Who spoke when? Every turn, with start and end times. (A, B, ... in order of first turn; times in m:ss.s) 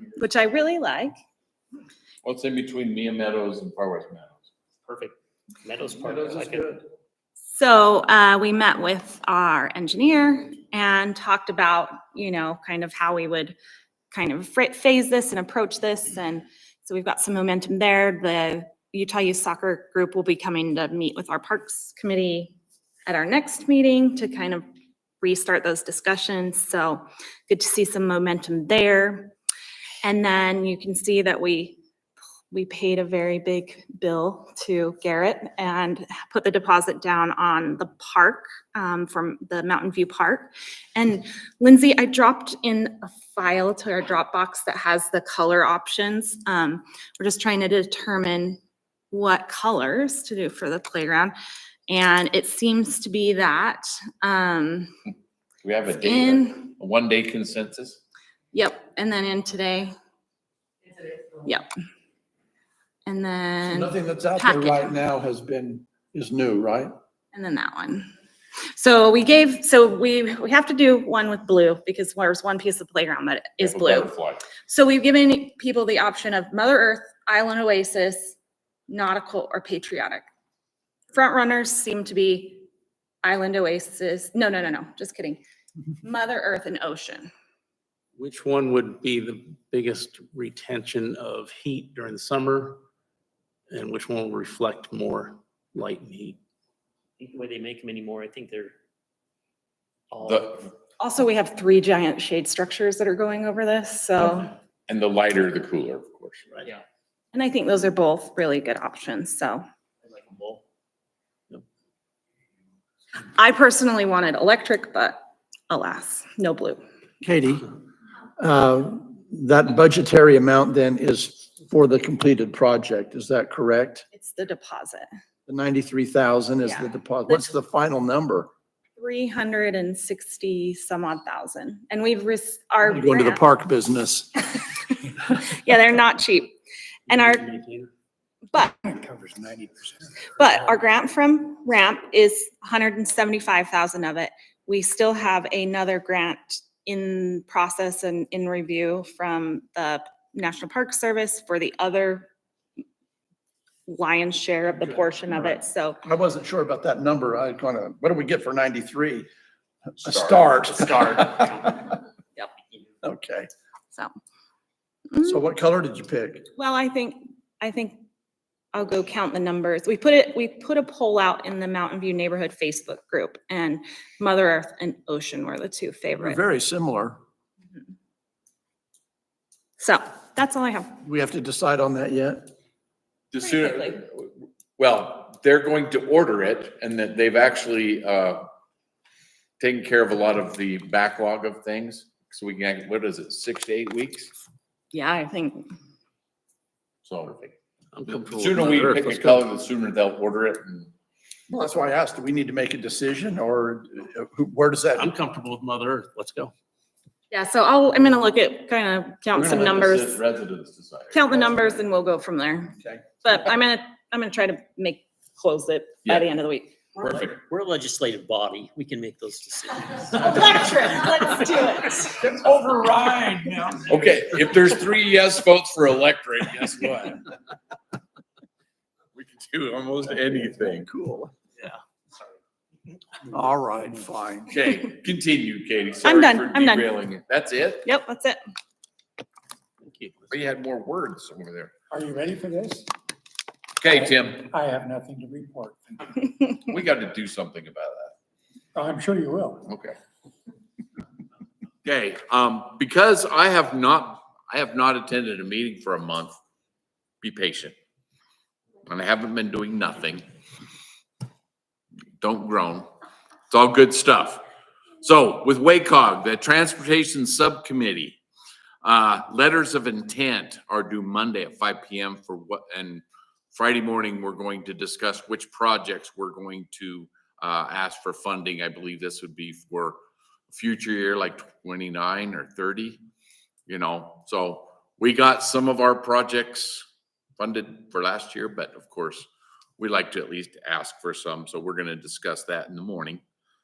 0:00.2-0:01.1 A
0:02.2-0:04.4 B
0:04.9-0:06.6 C
0:07.5-0:13.6 A
0:14.1-0:22.5 A
0:23.0-0:24.6 A
0:25.2-0:29.3 A
0:30.0-0:31.8 A
0:32.5-0:48.6 A
0:49.1-0:51.3 A
0:51.9-0:54.9 A
0:55.6-0:58.0 B
0:56.0-0:56.7 A
0:58.5-0:59.9 A
1:03.0-1:04.9 A
1:03.7-1:06.9 D
1:07.3-1:08.1 A
1:08.8-1:18.4 A
1:13.6-1:14.5 B
1:18.9-1:20.2 A
1:21.1-1:22.6 A
1:23.2-1:25.4 A
1:26.0-1:27.3 A
1:28.2-1:32.8 E
1:33.7-1:36.4 E
1:37.2-1:38.7 C
1:40.1-1:40.4 C
1:40.2-1:40.6 B
1:41.0-1:44.5 A
1:44.9-1:46.5 B
1:47.3-1:49.6 A
1:50.2-1:50.6 C
1:53.2-1:55.2 A
1:55.7-1:56.8 A
1:57.2-1:57.6 D
1:58.4-2:04.0 D
2:04.1-2:05.1 A
2:05.5-2:08.5 D
2:06.6-2:07.5 A
2:09.0-2:13.4 A
2:12.8-2:14.3 D
2:14.5-2:16.5 A
2:17.1-2:17.9 E
2:18.5-2:18.9 A
2:18.9-2:20.2 F
2:20.3-2:32.3 A
2:33.9-2:36.0 A
2:35.5-2:39.3 D
2:40.0-2:42.0 D
2:40.1-2:40.9 B
2:43.0-2:43.5 D
2:45.2-2:46.4 D
2:46.6-2:48.0 A
2:48.7-2:56.4 A
2:56.2-2:57.2 D
2:59.8-3:00.9 A
3:01.0-3:02.5 D
3:03.3-3:08.4 B
3:03.4-3:04.0 A
3:09.6-3:14.3 B
3:14.9-3:15.7 A
3:17.0-3:17.5 B
3:17.9-3:19.4 E
3:18.1-3:20.9 B
3:21.5-3:25.1 D
3:25.0-3:26.5 E
3:27.3-3:30.2 A
3:29.3-3:31.2 B
3:31.1-3:36.8 A
3:37.0-3:37.4 B
3:37.4-3:39.9 C
3:39.9-3:40.5 E
3:40.2-3:42.2 A
3:42.2-3:44.1 E
3:43.9-3:47.2 B
3:49.1-3:50.9 B
3:50.7-3:51.3 D
3:53.3-3:54.6 D
3:54.5-3:57.8 B
3:56.0-3:56.9 A
3:57.8-3:58.4 A
3:59.8-4:00.3 E
4:00.3-4:01.7 B
4:01.9-4:02.9 F
4:03.8-4:04.5 B
4:03.9-4:06.2 F
4:06.6-4:08.1 B
4:08.7-4:09.7 F
4:09.7-4:10.0 B
4:11.8-4:16.4 B
4:17.2-4:17.7 B
4:18.8-4:20.2 B
4:22.2-4:22.9 B
4:23.5-4:24.4 B
4:25.0-4:28.2 B
4:28.8-4:40.0 B
4:40.5-4:43.0 B
4:43.7-4:46.8 B
4:47.4-4:49.3 B
4:49.8-4:53.2 B